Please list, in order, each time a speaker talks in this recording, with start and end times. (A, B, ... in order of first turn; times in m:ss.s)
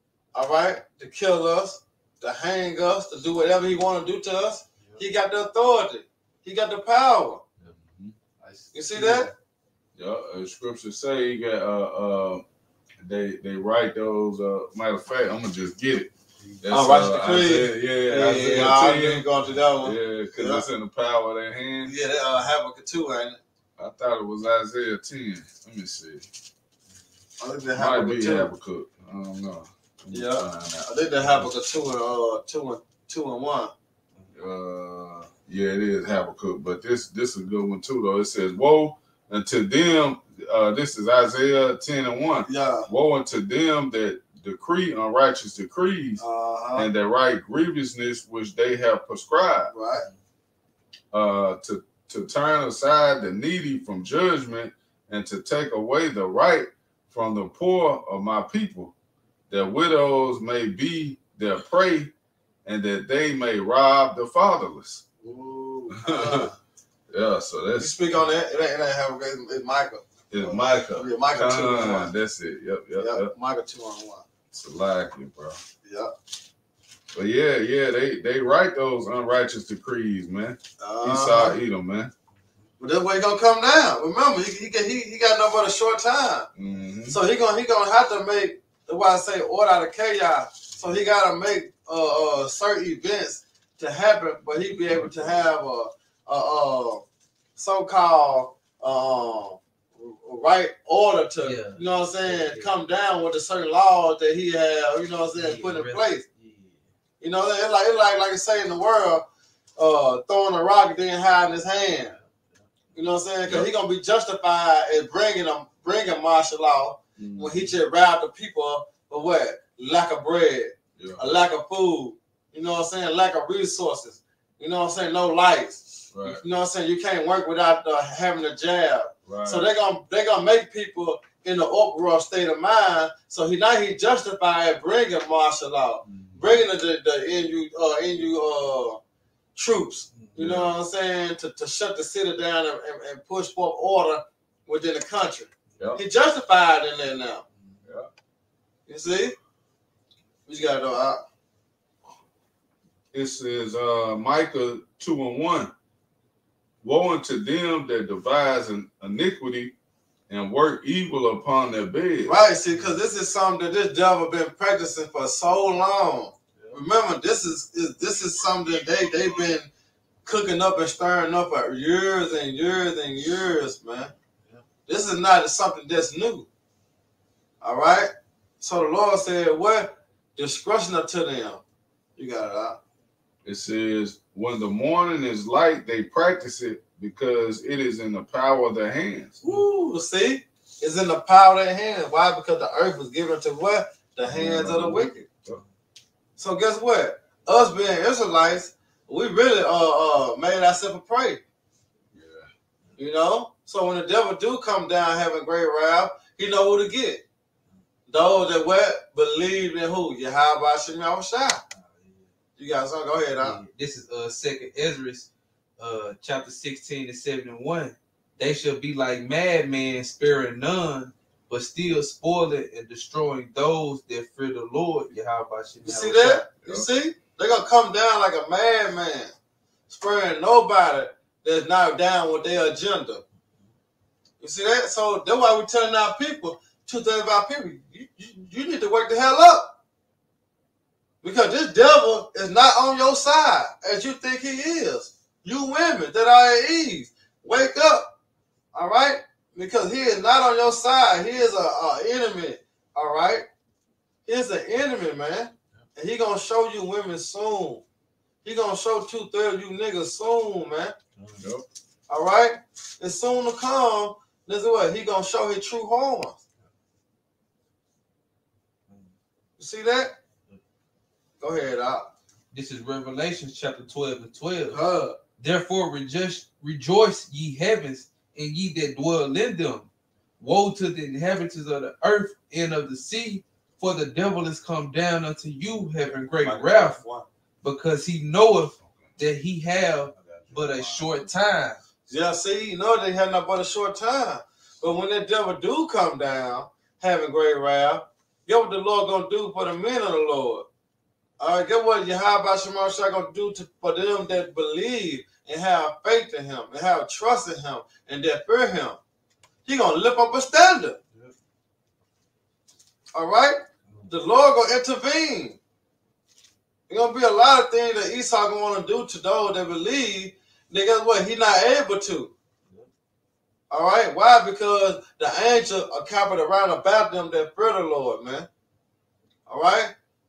0:00.3-0:07.4 A
0:07.8-0:08.1 B
0:08.4-0:09.3 C
0:08.7-0:09.3 A
0:10.0-0:12.4 B
0:13.0-0:16.1 B
0:16.6-0:19.3 B
0:16.7-0:20.6 A
0:19.8-0:21.9 B
0:21.8-0:23.4 A
0:23.8-0:26.2 B
0:27.4-0:28.5 A
0:27.7-0:31.4 B
0:30.1-0:33.7 A
0:34.3-0:46.2 B
0:42.4-0:42.9 A
0:46.2-0:46.9 A
0:46.8-0:49.7 B
0:49.7-0:50.1 A
0:51.1-0:58.9 B
0:59.5-1:02.1 B
1:02.6-1:05.1 B
1:05.2-1:06.5 A
1:05.9-1:06.5 B
1:07.1-1:08.0 B
1:07.8-1:12.1 A
1:10.3-1:13.3 B
1:13.0-1:14.2 A
1:14.5-1:15.6 B
1:15.8-1:16.1 A
1:17.1-1:22.1 B
1:20.8-1:21.6 A
1:22.8-1:26.5 A
1:26.6-1:27.2 B
1:27.1-1:37.0 A
1:34.6-1:35.4 B
1:37.6-1:46.2 A
1:41.4-1:42.7 C
1:45.3-1:46.8 C
1:47.2-1:49.2 A
1:49.8-1:52.1 A
1:52.9-2:19.0 A
1:57.2-1:57.7 B
2:01.0-2:01.4 B
2:06.1-2:06.4 B
2:09.2-2:09.6 B
2:16.0-2:16.6 B
2:19.5-2:27.4 A
2:20.4-2:20.7 B
2:28.9-2:29.4 A
2:30.5-2:31.2 A
2:33.1-2:35.7 B
2:36.8-2:39.7 B
2:40.3-2:42.4 B
2:42.2-2:49.7 A
2:50.2-2:54.1 A
2:54.9-2:56.5 A
2:57.6-3:01.6 A
3:02.2-3:02.8 A
3:03.4-3:09.4 B
3:09.4-3:15.2 A
3:14.2-3:15.6 B
3:16.4-3:21.4 A
3:22.1-3:22.5 B
3:23.0-3:27.2 A
3:28.1-3:31.6 A
3:31.8-3:32.2 C
3:32.6-3:33.6 A
3:33.4-3:46.5 C
3:45.8-3:49.3 A
3:49.9-3:53.2 A
3:54.4-3:59.7 A
4:01.2-4:08.1 A
4:08.7-4:13.4 A
4:14.2-4:17.8 A
4:18.4-4:20.9 A
4:21.2-4:21.4 C
4:21.4-4:21.6 B
4:22.1-4:26.4 A
4:29.6-4:30.1 A
4:31.4-4:32.1 A
4:32.5-4:34.8 C
4:34.7-4:35.2 A
4:35.4-4:39.9 C
4:40.4-4:47.0 C
4:46.4-4:47.3 A
4:47.6-4:51.8 C
4:48.8-4:49.1 B
4:50.1-4:51.2 B
4:52.1-5:00.6 A
5:01.4-5:09.0 A
5:09.6-5:11.0 A
5:13.1-5:15.6 A
5:16.9-5:22.3 A
5:23.7-5:28.5 A
5:29.5-5:29.9 A